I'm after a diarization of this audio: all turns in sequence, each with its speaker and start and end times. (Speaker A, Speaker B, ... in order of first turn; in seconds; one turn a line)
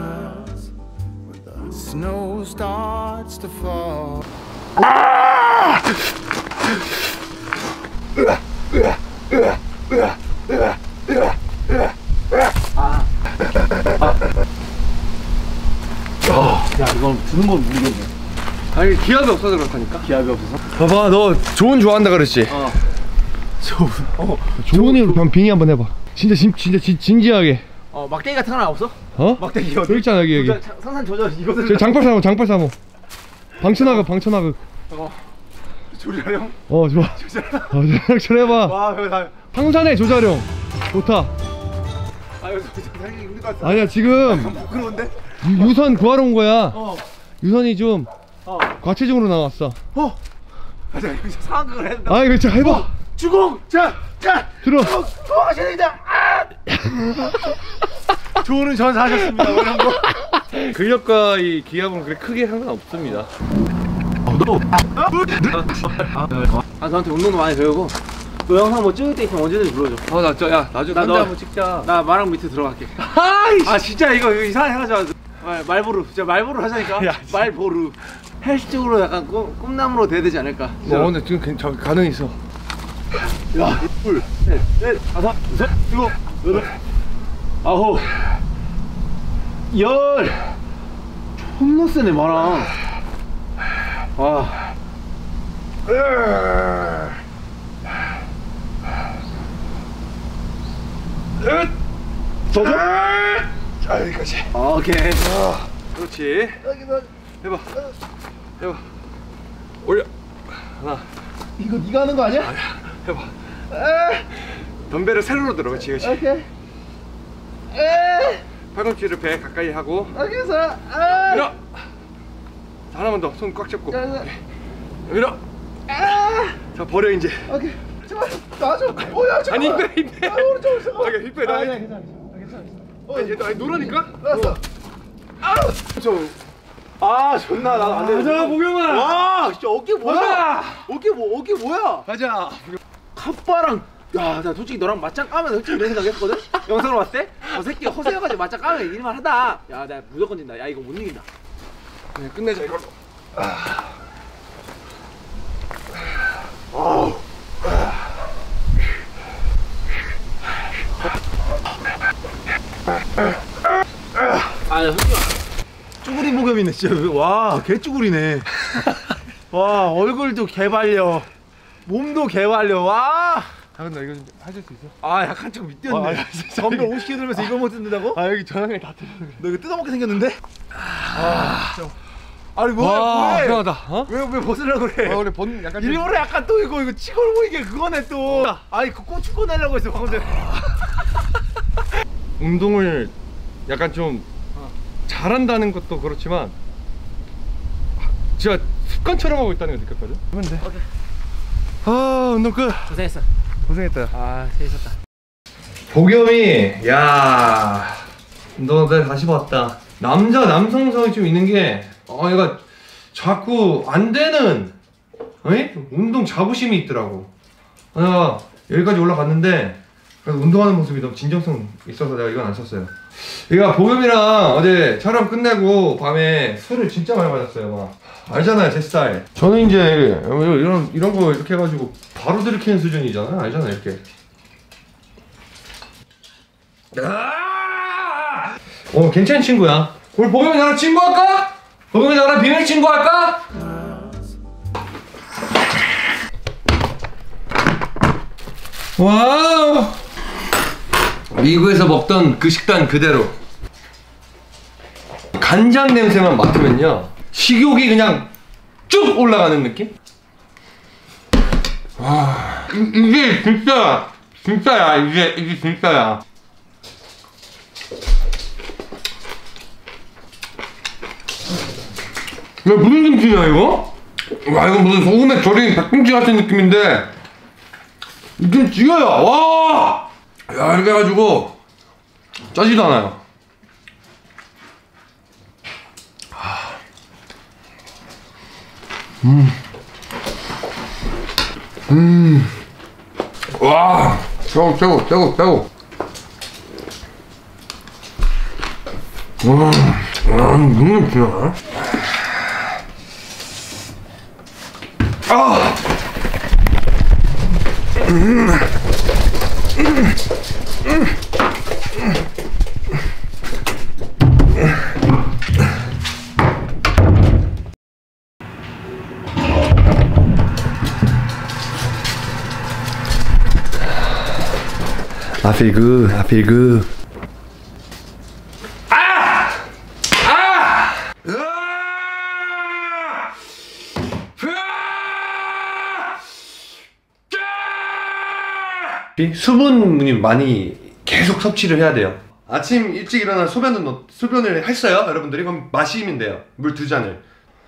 Speaker A: 1.8-3.1
Speaker A: 12.7-13.1
Speaker A: 16.2-18.1
Speaker B: 18.7-20.1
Speaker A: 20.0-20.6
Speaker B: 20.8-22.6
Speaker A: 22.5-22.8
Speaker A: 23.6-25.2
Speaker B: 24.6-27.6
Speaker A: 27.9-32.0
Speaker B: 29.2-30.6
Speaker B: 31.7-32.7
Speaker B: 33.6-34.6
Speaker A: 33.8-34.0
Speaker A: 34.9-35.2
Speaker A: 35.9-37.8
Speaker B: 36.7-37.1
Speaker B: 37.7-38.7
Speaker A: 38.5-39.4
Speaker B: 39.5-41.3
Speaker A: 42.4-45.7
Speaker B: 43.6-44.5
Speaker B: 45.4-46.8
Speaker A: 46.7-47.0
Speaker B: 47.4-48.1
Speaker A: 48.5-48.7
Speaker B: 48.8-49.8
Speaker A: 50.9-56.5
Speaker B: 52.1-52.8
Speaker B: 54.6-54.9
Speaker A: 58.4-60.2
Speaker B: 60.5-63.3
Speaker A: 64.3-68.0
Speaker A: 68.5-70.1
Speaker B: 70.1-71.8
Speaker A: 70.9-73.0
Speaker B: 73.0-73.7
Speaker A: 73.6-81.1
Speaker B: 77.0-77.3
Speaker B: 80.8-82.3
Speaker A: 83.5-86.7
Speaker A: 87.6-88.2
Speaker A: 89.7-90.4
Speaker A: 91.4-92.7
Speaker A: 94.2-94.6
Speaker A: 102.5-102.9
Speaker B: 102.7-103.1
Speaker B: 103.8-104.5
Speaker A: 104.5-105.3
Speaker B: 105.2-106.6
Speaker A: 106.6-107.1
Speaker B: 107.4-107.7
Speaker B: 110.8-111.0
Speaker A: 111.6-112.6
Speaker B: 112.5-113.3
Speaker A: 113.7-114.2
Speaker B: 114.9-116.2
Speaker A: 115.9-116.5
Speaker A: 117.7-118.4
Speaker B: 118.7-120.1
Speaker A: 120.1-121.5
Speaker B: 122.9-124.3
Speaker A: 123.9-124.3
Speaker B: 125.1-125.3
Speaker A: 125.9-126.6
Speaker B: 126.7-127.4
Speaker A: 127.5-134.6
Speaker B: 129.5-131.8
Speaker B: 133.1-134.3
Speaker A: 135.5-136.3
Speaker A: 137.0-142.1
Speaker B: 137.8-139.1
Speaker B: 140.1-140.6
Speaker B: 142.1-142.7
Speaker A: 143.1-151.3
Speaker B: 152.2-152.9
Speaker A: 164.7-165.4
Speaker A: 166.0-168.6
Speaker A: 169.5-171.3
Speaker A: 171.8-173.5
Speaker B: 173.8-174.9
Speaker A: 175.0-178.2
Speaker B: 175.9-176.9
Speaker B: 178.2-179.4
Speaker A: 179.4-180.4
Speaker A: 181.1-181.8
Speaker A: 182.6-190.9
Speaker B: 182.8-184.1
Speaker B: 185.1-186.1
Speaker B: 192.4-193.1
Speaker B: 193.7-194.2
Speaker B: 195.1-196.5
Speaker B: 198.4-200.6
Speaker B: 201.8-202.9
Speaker A: 202.9-203.2
Speaker B: 203.7-204.1
Speaker A: 204.1-204.9
Speaker B: 205.9-208.0
Speaker B: 208.6-212.6
Speaker B: 213.1-214.7
Speaker B: 215.4-217.3
Speaker B: 217.9-222.9
Speaker B: 223.5-234.0
Speaker B: 236.9-243.4
Speaker B: 249.0-249.9
Speaker B: 251.3-253.3
Speaker B: 255.4-258.3
Speaker B: 258.9-259.9
Speaker B: 262.0-266.2
Speaker B: 272.6-273.9
Speaker B: 274.4-277.1
Speaker B: 278.4-281.5
Speaker B: 282.5-283.2
Speaker B: 289.2-289.5
Speaker B: 291.9-292.5
Speaker B: 293.6-295.7
Speaker B: 299.4-301.6
Speaker B: 305.3-305.8
Speaker B: 308.1-308.4
Speaker B: 325.4-326.9
Speaker B: 328.9-329.5
Speaker B: 330.2-332.8
Speaker B: 334.4-335.1
Speaker B: 339.0-347.2